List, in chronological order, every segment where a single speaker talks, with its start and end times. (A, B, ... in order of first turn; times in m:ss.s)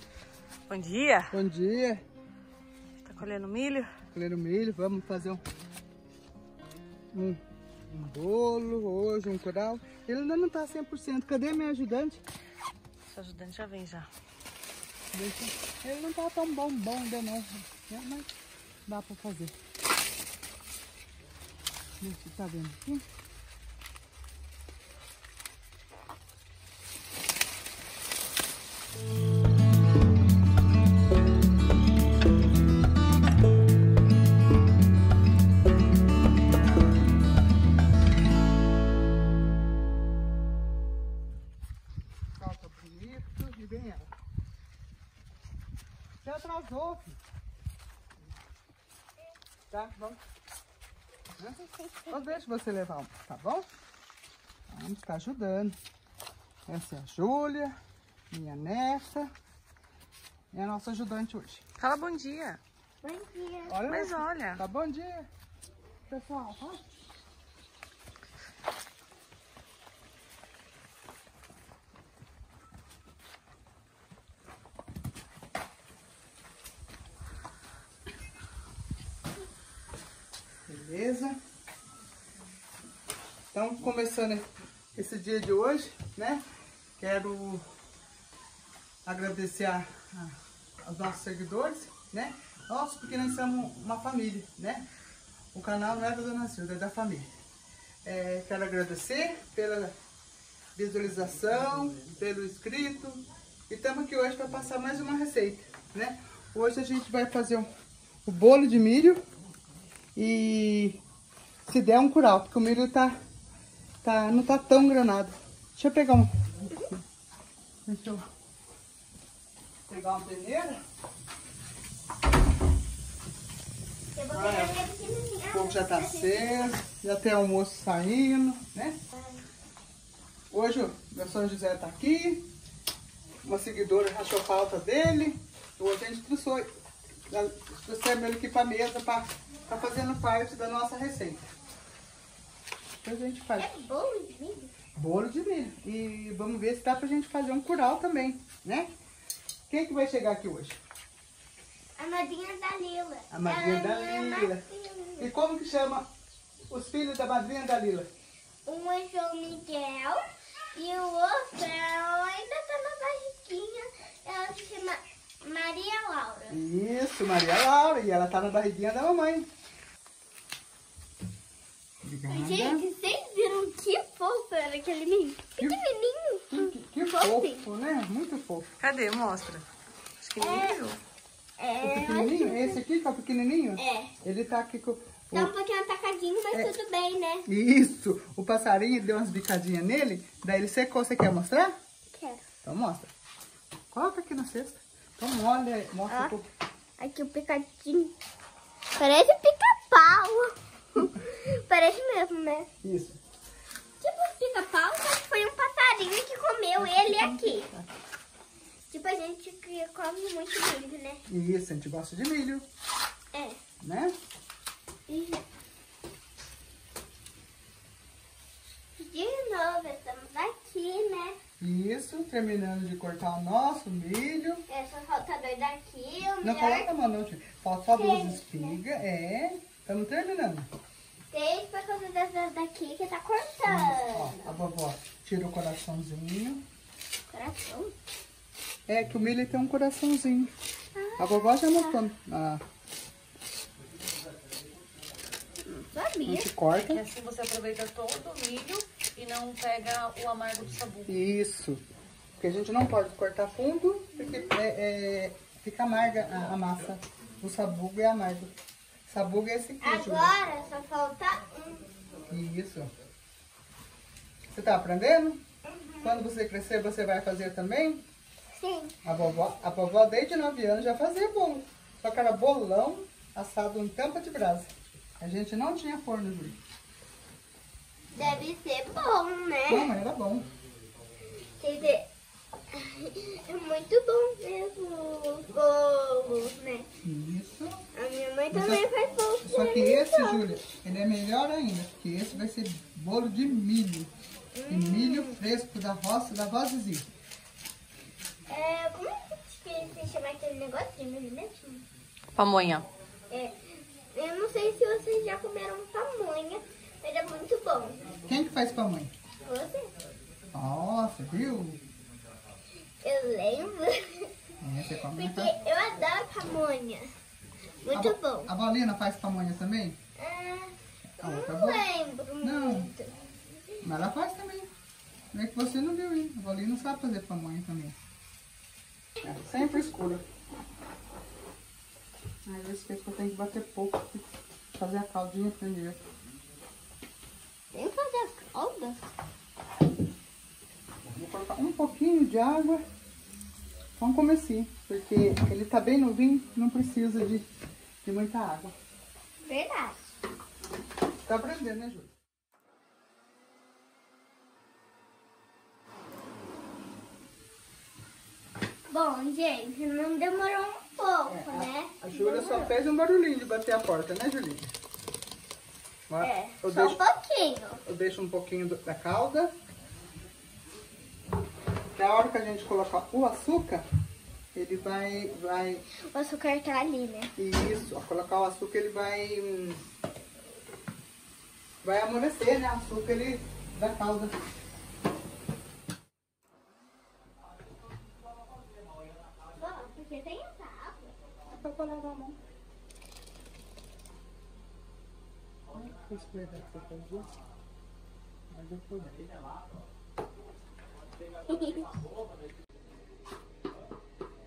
0:00.7-0:01.4 A
0:01.3-0:02.0 B
0:03.0-0:03.9 A
0:04.1-0:05.4 B
0:07.1-0:12.2 B
0:13.1-0:14.1 A
0:15.1-0:18.3 B
0:18.9-0:19.5 B
0:22.0-0:23.0 B
0:42.4-0:44.1 B
0:46.2-0:47.2 B
0:49.7-0:50.2 B
0:51.4-0:53.7 B
0:51.6-0:52.3 C
0:54.7-0:55.8 B
0:56.7-0:57.8 B
0:58.3-0:59.3 B
1:00.5-1:01.6 B
1:01.8-1:02.6 A
1:03.0-1:03.8 C
1:03.7-1:05.3 B
1:03.9-1:04.6 A
1:06.1-1:06.8 B
1:20.7-1:21.4 B
1:23.5-1:26.4 B
1:27.0-1:27.6 B
1:29.1-1:34.9 B
1:35.5-1:37.3 B
1:38.0-1:40.0 B
1:40.8-1:47.7 B
1:48.3-1:49.2 B
1:50.2-1:51.0 B
1:51.7-1:53.2 B
1:54.0-1:56.3 B
1:57.9-1:58.3 B
1:59.9-2:00.8 B
2:04.2-2:06.7 C
2:04.3-2:04.8 B
2:05.5-2:09.0 B
2:09.1-2:09.4 C
2:10.5-2:12.5 B
2:13.4-2:16.7 B
2:17.3-2:21.5 B
2:23.0-2:23.8 B
2:23.6-2:24.7 C
2:25.0-2:28.9 B
2:29.7-2:30.8 B
2:32.0-2:35.3 C
2:33.3-2:34.6 B
2:35.2-2:36.1 B
2:36.7-2:38.1 B
2:38.6-2:46.6 C
2:46.5-2:49.5 B
2:52.0-2:52.8 B
2:52.3-2:57.7 C
2:56.5-2:58.7 B
2:58.8-2:59.7 A
3:00.2-3:01.0 A
3:00.4-3:00.8 C
3:01.6-3:02.8 C
3:01.8-3:05.5 B
3:03.8-3:04.1 C
3:05.3-3:07.5 C
3:07.5-3:11.7 B
3:12.1-3:12.4 C
3:12.6-3:13.1 B
3:13.9-3:16.5 B
3:16.1-3:16.4 C
3:17.0-3:18.1 C
3:19.0-3:22.7 C
3:22.8-3:23.2 B
3:24.0-3:27.7 C
3:26.8-3:27.9 B
3:28.9-3:31.2 C
3:31.3-3:32.7 B
3:33.3-3:33.6 C
3:33.8-3:34.1 B
3:35.1-3:35.4 C
3:39.0-3:41.4 C
3:41.6-3:44.6 B
3:44.7-3:46.9 C
3:46.4-3:50.7 B
3:47.9-3:48.8 C
3:51.3-3:54.5 C
3:53.7-3:56.6 B
3:57.3-3:58.0 C
3:58.9-4:00.5 B
4:01.0-4:02.0 C
4:01.2-4:02.6 B
4:05.7-4:06.5 C
4:06.2-4:07.0 B
4:06.8-4:11.2 A
4:11.1-4:11.8 B
4:12.4-4:18.5 B
4:19.1-4:20.4 B
4:19.8-4:21.9 C
4:22.3-4:22.9 B
4:24.5-4:25.4 B
4:25.7-4:26.3 C
4:26.0-4:28.0 B
4:28.5-4:29.0 C
4:29.0-4:36.6 B
4:38.1-4:39.9 C
4:39.7-4:40.5 B
4:41.6-4:42.1 C
4:42.7-4:46.9 C
4:47.0-4:47.8 B
4:47.9-4:50.4 C
4:48.5-4:48.9 B
4:49.4-4:54.1 B
4:54.5-4:55.4 C
4:54.7-4:57.1 B
4:58.5-5:01.8 C
5:02.4-5:02.9 A
5:03.3-5:08.0 C
5:08.3-5:09.1 B
5:09.4-5:09.9 C
5:10.5-5:11.8 B
5:13.0-5:14.3 C
5:14.6-5:15.5 B
5:15.2-5:17.1 C
5:17.8-5:18.5 C
5:17.9-5:20.0 B
5:20.2-5:23.1 C
5:21.2-5:21.9 B
5:22.4-5:22.9 B
5:23.8-5:24.7 B
5:25.3-5:28.0 B
5:29.2-5:30.2 B
5:32.4-5:36.0 B
5:37.7-5:39.0 C
5:41.1-5:42.8 B
5:44.0-5:47.5 B
5:48.0-5:48.8 B
5:49.4-5:50.0 C
5:51.3-5:52.1 B
5:58.9-6:02.8 C
6:01.3-6:04.7 B
6:06.1-6:07.0 B
6:06.2-6:07.8 C
6:07.8-6:09.5 B
6:12.0-6:13.8 B
6:14.6-6:15.8 B
6:16.0-6:17.3 C
6:17.4-6:19.8 B
6:21.8-6:24.3 B
6:29.6-6:31.1 C
6:31.5-6:32.4 B
6:35.7-6:37.3 B
6:38.5-6:39.2 B
6:41.5-6:41.8 C